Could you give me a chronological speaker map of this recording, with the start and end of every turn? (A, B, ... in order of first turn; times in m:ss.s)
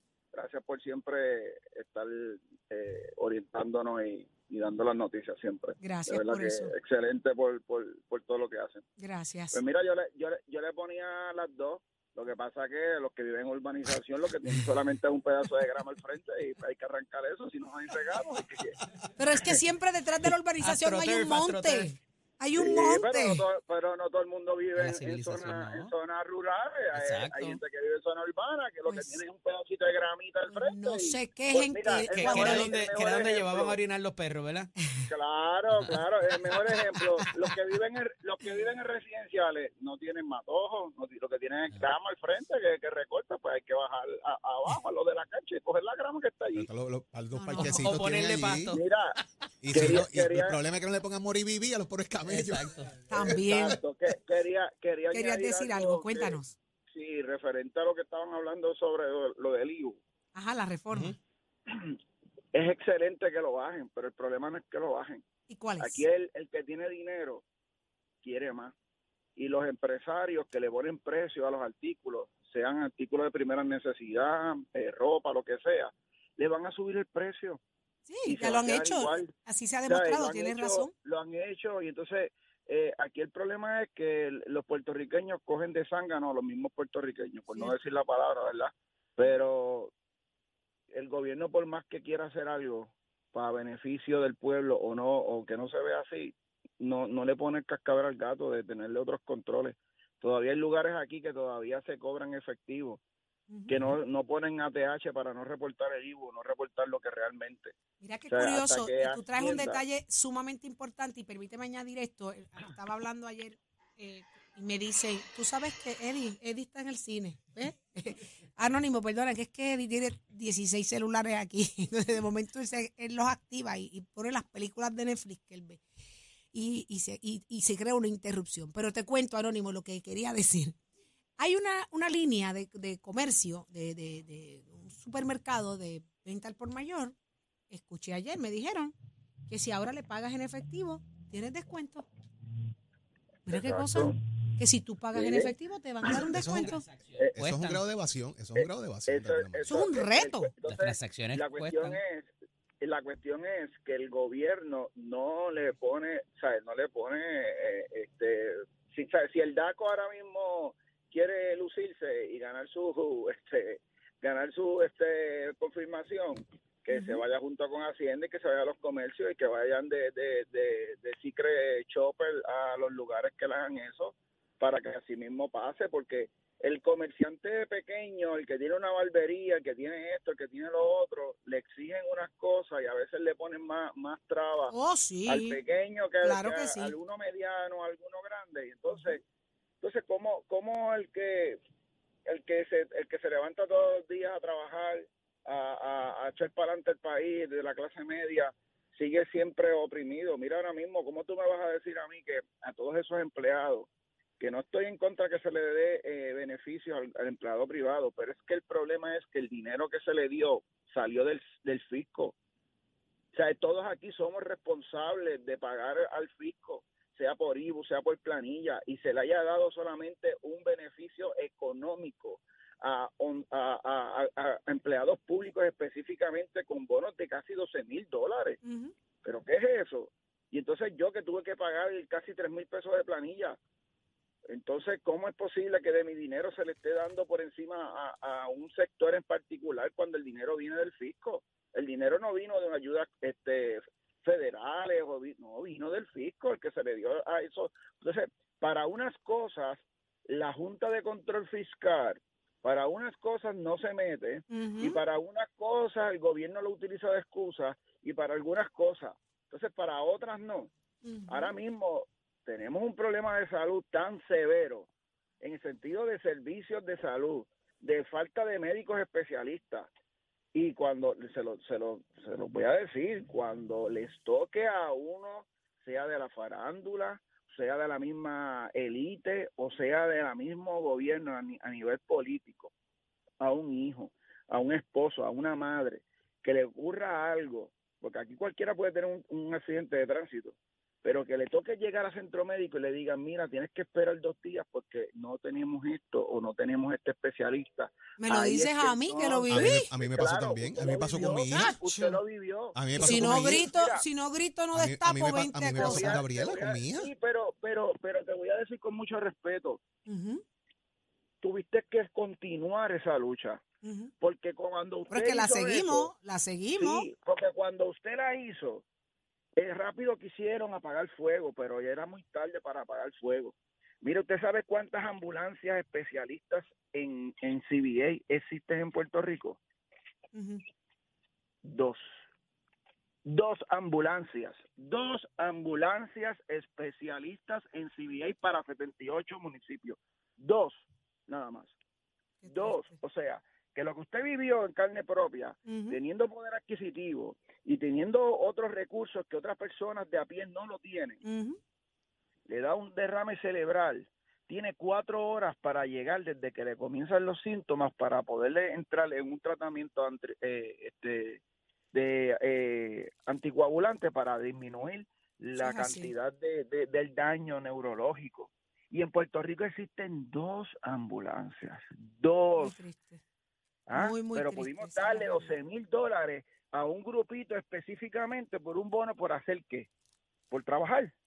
0:00.3-0:08.9 A
0:05.8-0:06.7 B
0:09.0-0:09.6 B
0:09.5-0:18.8 A
0:19.2-0:23.4 B
0:20.6-0:21.9 C
0:22.6-0:33.8 A
0:24.8-0:25.9 C
0:26.9-0:27.6 C
0:28.9-0:29.2 B
0:30.5-0:32.8 B
0:32.1-0:34.7 C
0:35.1-0:46.7 A
0:35.7-0:36.0 C
0:46.5-0:48.8 D
0:47.3-0:48.0 B
0:47.6-0:48.8 C
0:48.7-0:49.2 A
0:49.6-0:53.4 D
0:49.7-0:50.6 A
0:52.3-0:53.0 C
0:53.1-0:53.8 B
0:53.2-0:56.4 A
0:55.1-0:56.6 B
0:56.9-1:00.0 A
1:00.3-1:01.2 B
1:01.7-1:02.0 A
1:02.5-1:05.2 A
1:05.5-1:06.0 B
1:05.8-1:07.4 A
1:08.2-1:08.7 A
1:09.4-1:17.6 A
1:18.1-1:20.9 B
1:18.3-1:19.3 A
1:19.9-1:29.9 A
1:27.5-1:27.8 B
1:30.9-1:43.0 A
1:43.5-1:43.8 B
1:43.7-1:47.7 A
1:48.0-2:05.8 B
1:48.3-1:49.8 A
2:06.5-2:10.8 B
2:11.4-2:17.2 B
2:17.7-2:18.9 B
2:19.5-2:22.1 B
2:23.5-2:26.8 B
2:23.5-2:24.2 A
2:25.2-2:25.5 A
2:26.1-2:26.7 D
2:26.6-2:27.8 C
2:27.4-2:29.8 D
2:28.6-2:32.3 A
2:29.7-2:30.5 B
2:30.7-2:32.0 C
2:32.8-3:04.7 A
2:46.9-2:47.2 B
3:04.7-3:05.6 B
3:05.3-3:09.2 A
3:06.2-3:06.9 B
3:09.8-3:11.6 A
3:12.3-3:23.9 A
3:24.4-3:32.4 A
3:33.3-3:48.6 A
3:48.6-3:48.9 B
3:49.2-3:53.6 A
3:54.5-4:20.7 A
4:14.5-4:15.0 B
4:21.0-4:21.5 B
4:21.3-4:24.9 A
4:25.4-4:29.9 A
4:30.5-4:42.7 A
4:43.4-5:04.0 A
4:58.2-4:59.9 B
4:59.5-5:01.8 D
5:01.1-5:02.2 B
5:02.7-5:03.7 D
5:03.0-5:06.2 B
5:04.7-5:07.1 D
5:05.8-5:09.8 A
5:10.1-5:10.4 B
5:11.4-5:13.6 A
5:13.8-5:14.1 B
5:14.2-5:16.1 A
5:15.1-5:17.1 B
5:16.8-5:18.8 A
5:19.6-5:29.6 A
5:30.3-5:30.6 B
5:31.6-5:32.0 A
5:33.2-5:41.7 A
5:42.4-5:43.0 B
5:42.5-5:51.2 A
5:45.7-5:46.0 B
5:51.2-5:51.6 B
5:52.5-6:01.4 A
6:01.9-6:12.8 A
6:05.6-6:06.1 B
6:12.6-6:13.2 B
6:13.9-6:19.9 A
6:13.9-6:15.5 B
6:20.5-6:21.1 A